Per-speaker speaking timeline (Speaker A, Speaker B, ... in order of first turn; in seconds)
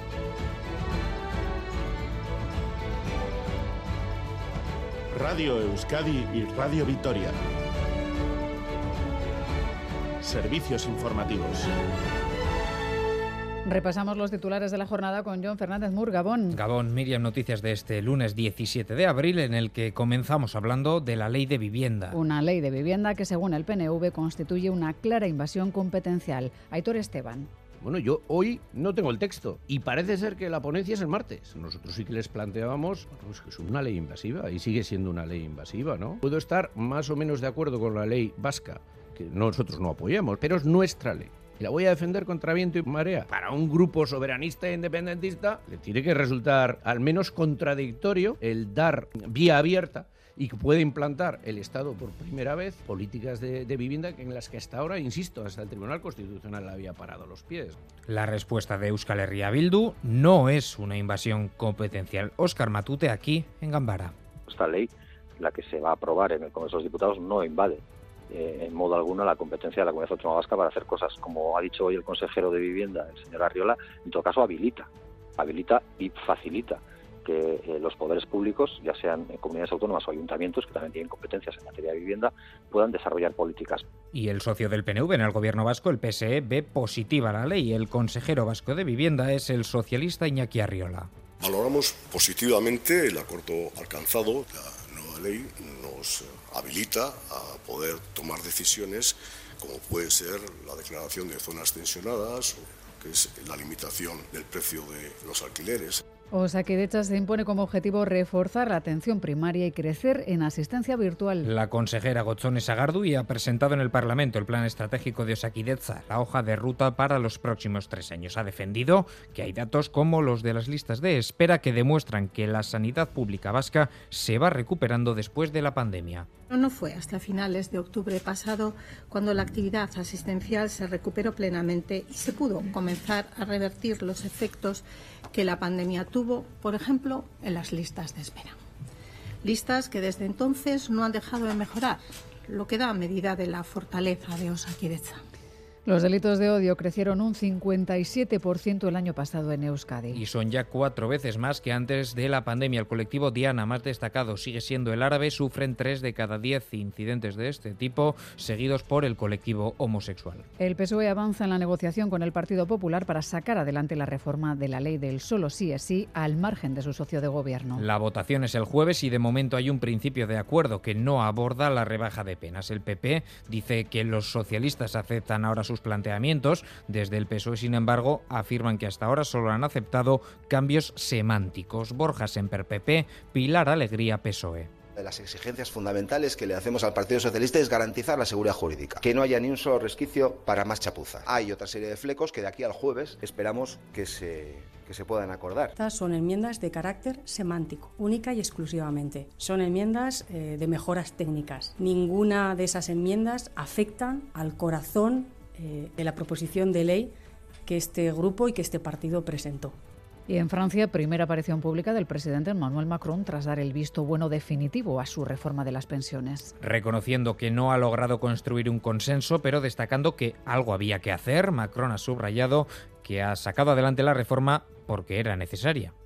Speaker A: 5.1-7.3, 10.2-11.7
Speaker B: 13.6-16.6, 22.1-27.5, 106.3-111.5, 145.8-150.2, 160.6-167.8, 210.3-216.5
Speaker C: 16.5-22.1, 58.1-64.1, 84.1-91.1, 111.4-126.3, 150.1-160.4, 167.8-184.7, 216.6-225.9
Speaker D: 27.8-57.8
Speaker E: 64.5-74.9, 75.4-83.8
Speaker F: 91.4-106.0
Speaker G: 126.5-138.6, 139.4-145.2
Speaker H: 184.9-195.7
Speaker I: 195.8-207.1, 207.7-209.8